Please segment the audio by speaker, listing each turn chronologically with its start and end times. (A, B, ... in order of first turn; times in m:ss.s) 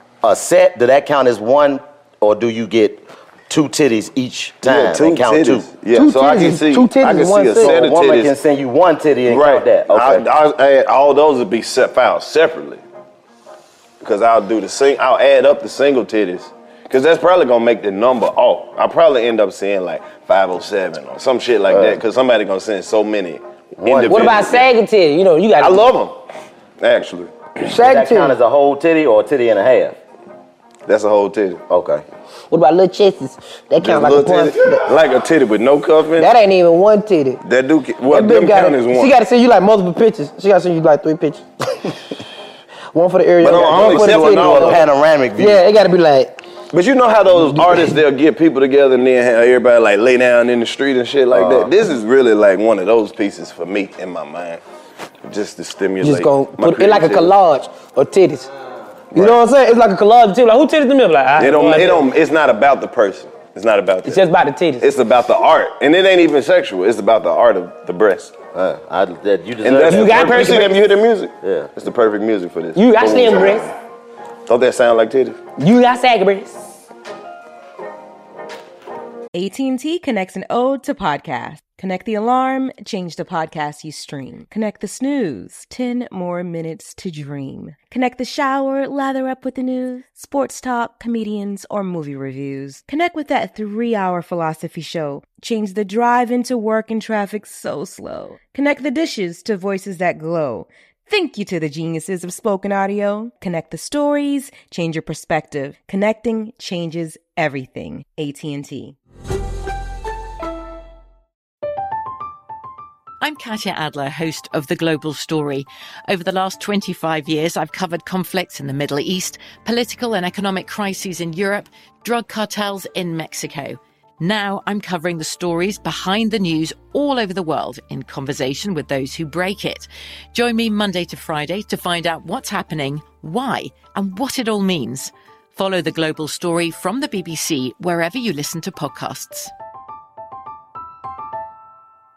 0:00.2-0:05.7 A
0:04.6-0:08.4 B
0:05.9-0:07.8 C
0:07.6-0:10.2 A
0:09.3-0:12.8 B
0:14.0-0:24.7 B
0:21.7-0:22.0 A
0:23.8-0:24.6 A
0:24.1-0:25.9 C
0:25.6-0:26.2 B
0:26.8-0:27.4 B
0:27.7-0:28.4 C
0:27.8-0:30.0 A
0:30.9-0:31.6 B
0:31.7-0:32.0 A
0:32.5-0:34.8 C
0:33.8-0:36.3 B
0:36.2-0:37.4 C
0:37.4-0:39.1 B
0:38.1-0:41.9 C
0:42.9-0:44.8 C
0:43.4-0:44.8 B
0:43.5-0:45.6 A
0:45.4-0:46.4 C
0:46.7-0:54.6 B
0:47.4-0:47.9 C
0:51.3-0:51.7 A
0:55.2-0:57.3 B
0:56.0-0:58.5 C
0:59.1-1:02.1 C
1:01.4-1:04.2 B
1:04.1-1:04.9 C
1:04.8-1:08.3 B
1:08.5-1:10.8 A
1:09.6-1:13.8 B
1:09.8-1:10.8 C
1:11.4-1:11.7 A
1:12.8-1:13.7 C
1:14.5-1:15.4 B
1:15.6-1:16.6 C
1:19.3-1:49.0 D
1:53.2-2:19.5 E